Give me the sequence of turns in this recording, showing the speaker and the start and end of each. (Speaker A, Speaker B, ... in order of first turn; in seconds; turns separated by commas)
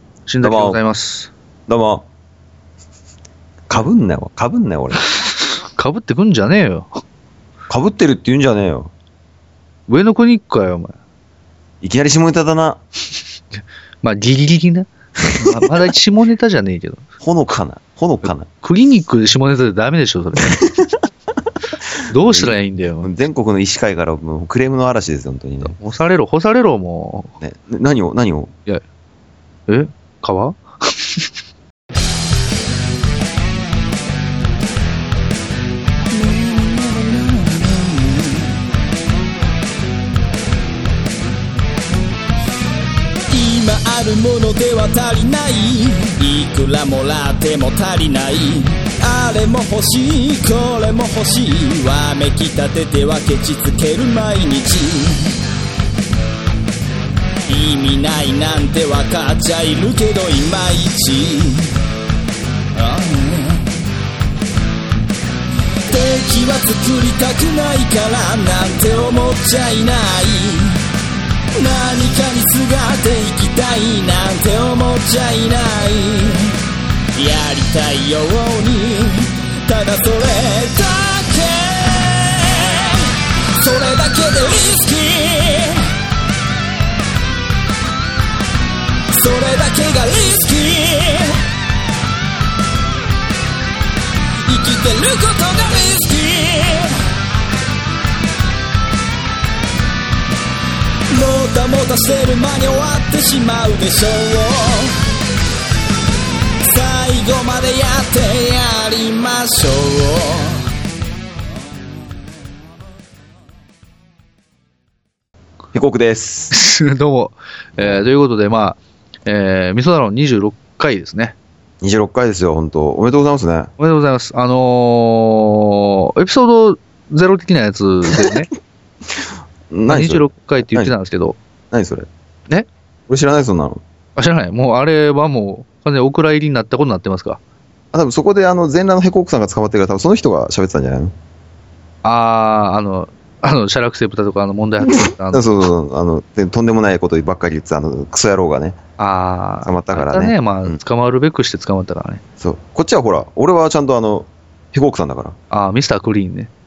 Speaker A: 0.3-1.3, Speaker B: 0.4-0.8, Speaker B: 1.7-2.1, Speaker B: 3.7-5.0, Speaker A: 5.5-7.0, Speaker B: 7.7-8.9, Speaker A: 9.9-10.9, Speaker B: 11.8-12.8, Speaker A: 14.0-17.1, Speaker B: 15.4-15.7, Speaker B: 17.2-18.5, Speaker A: 18.6-20.6, Speaker B: 20.4-20.9, Speaker B: 21.9-25.8, Speaker A: 22.1-23.1, Speaker A: 25.7-27.3, Speaker B: 27.4-28.5, Speaker A: 29.7-31.3, Speaker C: 36.1-38.5, Speaker C: 43.3-55.4, Speaker C: 57.5-61.8, Speaker C: 62.8-63.7, Speaker C: 65.9-70.8, Speaker C: 71.6-76.6, Speaker C: 77.2-85.9, Speaker C: 89.1-91.4, Speaker C: 94.4-97.0, Speaker C: 101.1-105.0, Speaker C: 106.6-110.7, Speaker B: 115.7-116.5, Speaker A: 116.5-121.4, Speaker B: 117.8-118.0, Speaker B: 121.8-123.7, Speaker A: 123.8-128.5, Speaker B: 128.1-128.4, Speaker B: 129.2-130.9, Speaker A: 129.9-131.4, Speaker B: 131.7-132.1, Speaker B: 133.1-133.8, Speaker A: 134.2-137.4, Speaker B: 137.9-141.2, Speaker A: 142.0-145.4, Speaker B: 144.8-148.8, Speaker A: 149.0-152.2, Speaker B: 149.6-150.8, Speaker B: 152.4-155.4, Speaker A: 155.5-156.5